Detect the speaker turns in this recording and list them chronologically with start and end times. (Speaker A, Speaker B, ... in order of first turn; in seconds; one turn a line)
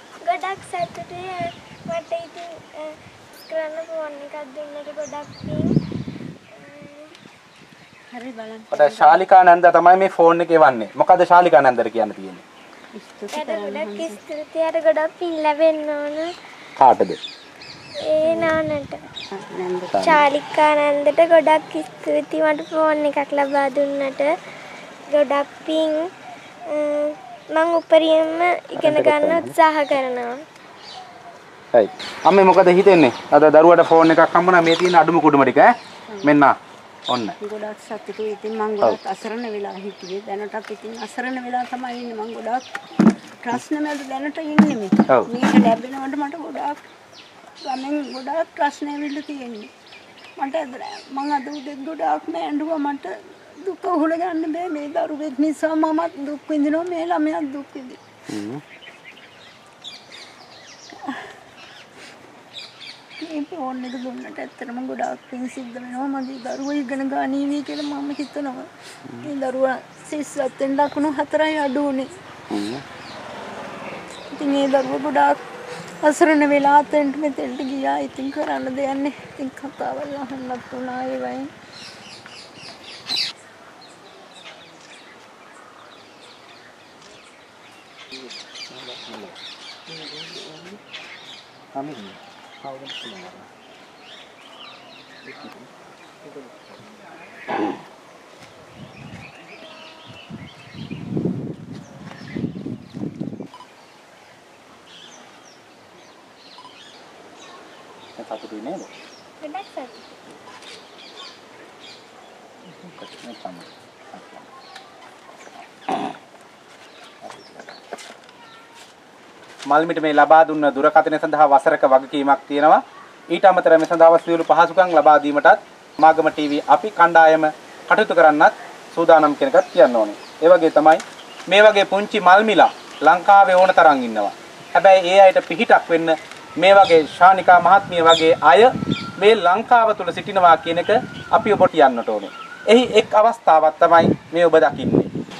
Speaker A: 0.2-2.9
Speaker A: 3.5-5.7
Speaker A: 6.5-7.1
Speaker B: 8.1-9.2
Speaker C: 8.7-12.4
Speaker B: 13.0-14.2
Speaker A: 13.3-16.3
Speaker C: 16.8-17.2
Speaker A: 18.1-19.0
Speaker B: 18.2-18.6
Speaker B: 19.3-20.1
Speaker C: 19.9-20.3
Speaker A: 20.1-24.3
Speaker A: 25.1-26.0
Speaker A: 26.7-30.3
Speaker C: 28.8-29.5
Speaker C: 31.7-35.7
Speaker C: 36.2-36.5
Speaker C: 37.1-37.4
Speaker B: 37.4-42.6
Speaker B: 43.4-46.8
Speaker B: 47.6-49.7
Speaker B: 50.4-53.1
Speaker B: 53.6-58.0
Speaker C: 58.3-58.6
Speaker B: 63.2-72.1
Speaker C: 72.5-72.8
Speaker B: 74.3-75.4
Speaker B: 76.0-81.5
Speaker C: 88.7-89.4
Speaker C: 91.8-93.5
Speaker C: 95.2-95.7
Speaker C: 96.3-96.7
Speaker C: 108.2-108.9
Speaker A: 109.4-110.1
Speaker C: 113.0-114.5
Speaker C: 115.9-116.2
Speaker C: 117.2-117.7
Speaker C: 119.7-122.8
Speaker C: 123.3-145.1